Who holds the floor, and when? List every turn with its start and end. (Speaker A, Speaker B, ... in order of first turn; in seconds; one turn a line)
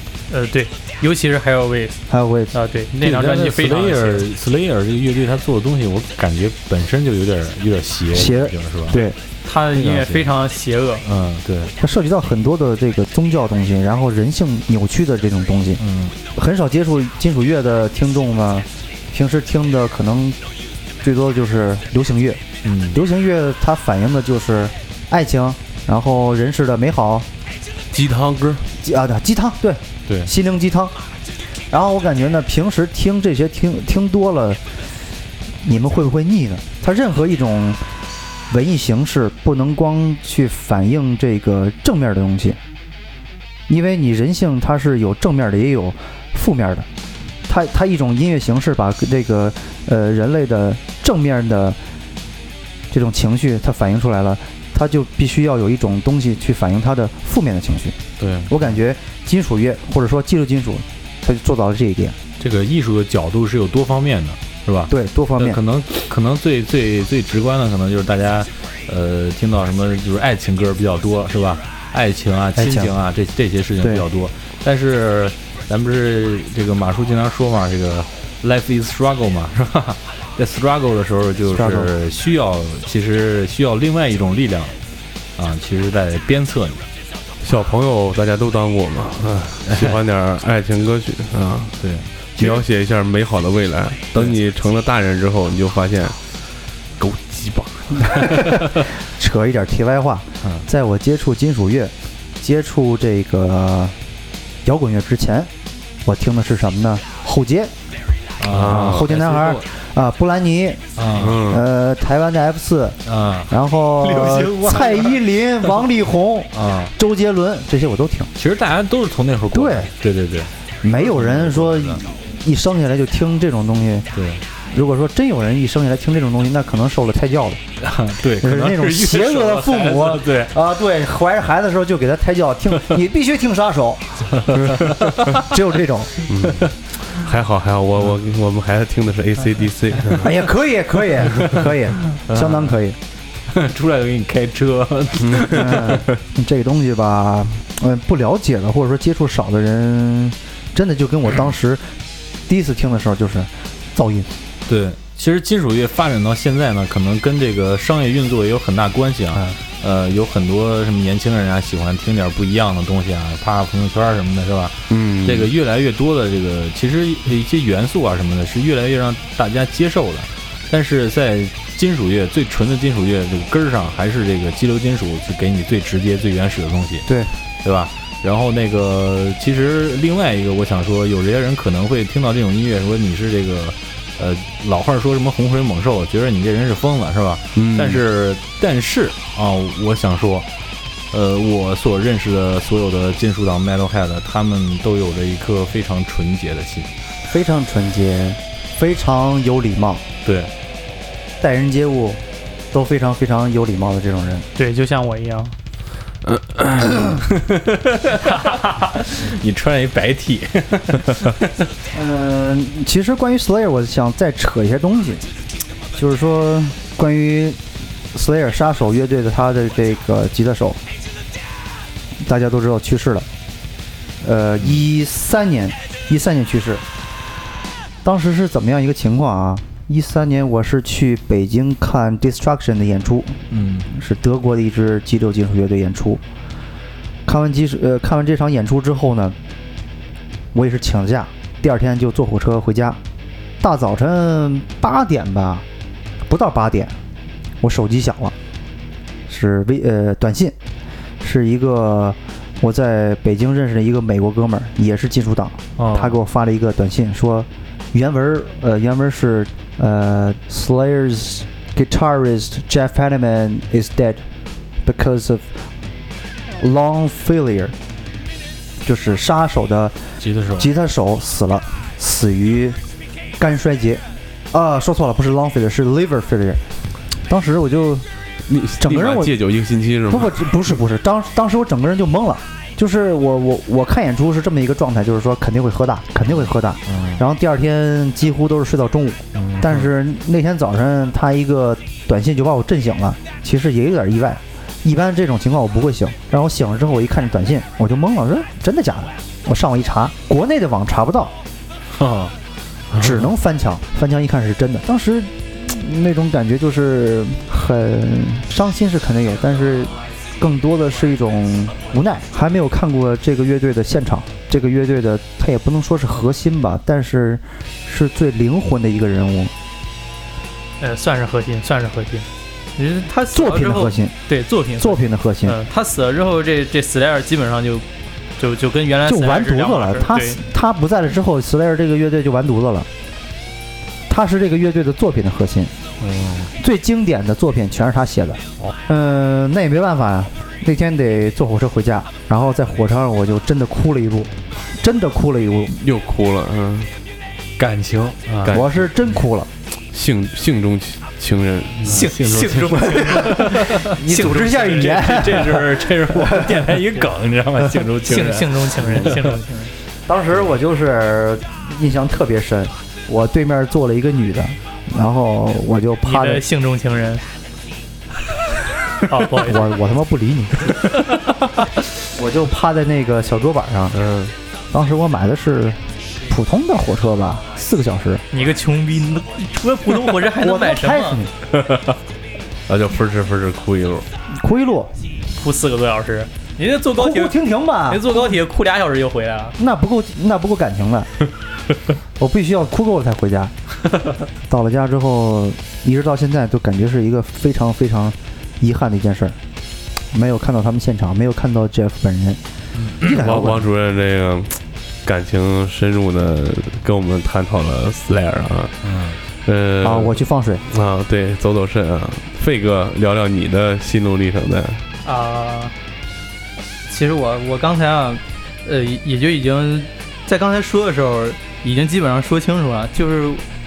Speaker A: 0.3-2.0
Speaker B: 2.1-2.5
Speaker A: 2.5-4.2
Speaker C: 2.9-9.0
Speaker B: 8.1-9.2
Speaker A: 9.4-11.0
Speaker C: 9.7-10.3
Speaker C: 11.0-11.7
Speaker B: 11.8-15.8
Speaker C: 15.8-16.1
Speaker B: 16.3-20.4
Speaker B: 21.0-22.4
Speaker C: 22.6-23.0
Speaker B: 22.9-27.3
Speaker D: 27.9-28.7
Speaker B: 28.8-30.9
Speaker B: 31.7-34.6
Speaker B: 35.6-37.8
Speaker B: 38.5-42.6
Speaker B: 43.7-46.9
Speaker B: 47.5-51.8
Speaker B: 52.9-58.0
Speaker C: 58.2-58.6
Speaker B: 58.5-62.2
Speaker C: 62.4-84.7
Speaker B: 64.9-65.6
Speaker B: 72.6-72.9
Speaker B: 81.5-81.9
Speaker C: 85.4-86.8
Speaker D: 87.4-91.8
Speaker C: 89.7-90.0
Speaker C: 91.8-92.6
Speaker D: 92.4-96.2
Speaker D: 97.0-98.5
Speaker B: 98.1-104.0
Speaker B: 104.7-105.5
Speaker B: 106.0-107.7
Speaker C: 108.4-109.7
Speaker D: 108.5-109.1
Speaker B: 108.7-110.8
Speaker C: 111.0-111.4
Speaker D: 111.2-111.7
Speaker B: 111.4-118.3
Speaker C: 113.1-113.5
Speaker C: 114.0-115.1
Speaker C: 116.5-116.9
Speaker C: 118.4-122.0
Speaker B: 119.5-119.9
Speaker B: 120.8-124.1
Speaker C: 124.1-124.4
Speaker B: 124.7-127.6
Speaker C: 127.8-130.6
Speaker B: 128.4-134.3
Speaker C: 134.4-135.5
Speaker B: 135.3-136.1
Speaker D: 136.3-140.3
Speaker B: 140.2-143.0
Speaker C: 142.2-142.7
Speaker C: 143.5-146.0
Speaker B: 145.5-151.9
Speaker B: 152.5-154.3
Speaker C: 154.7-177.1
Speaker D: 164.9-165.5
Speaker B: 177.1-177.3
Speaker C: 177.6-190.5
Speaker D: 187.6-188.0
Speaker C: 191.1-196.9
Speaker B: 197.3-200.0
Speaker C: 200.2-200.5
Speaker B: 201.4-202.2
Speaker B: 202.7-204.5
Speaker A: 204.6-205.5
Speaker D: 206.3-207.2
Speaker C: 208.1-211.3
Speaker B: 211.9-215.2
Speaker B: 215.9-217.6
Speaker B: 218.1-220.8
Speaker B: 222.2-223.3
Speaker B: 224.2-226.8
Speaker B: 228.0-236.2
Speaker C: 233.5-233.9
Speaker B: 237.3-239.4
Speaker B: 240.5-243.0
Speaker B: 243.6-245.7
Speaker B: 246.2-247.0
Speaker B: 247.6-248.3
Speaker B: 249.3-250.6
Speaker B: 251.2-264.2
Speaker C: 255.8-256.2
Speaker B: 264.8-265.6
Speaker B: 266.5-267.8
Speaker B: 268.8-270.1
Speaker C: 270.2-270.7
Speaker B: 270.6-272.8
Speaker B: 273.4-276.6
Speaker B: 277.3-278.1
Speaker D: 278.5-280.8
Speaker B: 278.8-279.4
Speaker B: 280.1-301.3
Speaker C: 286.3-287.2
Speaker C: 289.3-289.9
Speaker C: 301.9-302.3
Speaker B: 303.0-319.5
Speaker A: 320.8-327.9
Speaker B: 323.3-324.1
Speaker B: 324.8-325.6
Speaker A: 328.4-330.4
Speaker B: 329.1-332.9
Speaker B: 334.1-335.7
Speaker C: 336.0-336.5
Speaker B: 336.6-345.7
Speaker D: 345.7-346.9
Speaker C: 347.6-348.6
Speaker D: 348.4-348.9
Speaker B: 348.5-349.5
Speaker D: 349.9-352.1
Speaker C: 351.8-353.9
Speaker A: 351.9-355.2
Speaker B: 352.8-356.7
Speaker C: 354.5-359.4
Speaker A: 358.1-359.7
Speaker B: 360.1-366.4
Speaker A: 366.1-367.2
Speaker A: 369.1-369.7
Speaker B: 369.4-370.9
Speaker B: 372.1-374.0
Speaker D: 373.9-374.3
Speaker B: 374.7-378.2
Speaker A: 378.3-381.2
Speaker B: 380.4-381.3
Speaker D: 381.5-382.0
Speaker D: 382.7-384.1
Speaker B: 384.3-384.9
Speaker A: 385.4-389.6
Speaker B: 386.9-388.4
Speaker B: 389.6-391.1
Speaker B: 392.2-393.5
Speaker B: 394.5-399.4
Speaker B: 400.1-402.4
Speaker C: 402.8-403.1
Speaker B: 403.0-403.7
Speaker D: 403.1-408.8
Speaker C: 408.8-409.2
Speaker D: 409.4-414.8
Speaker B: 409.8-410.6
Speaker A: 415.0-415.7
Speaker A: 416.9-423.4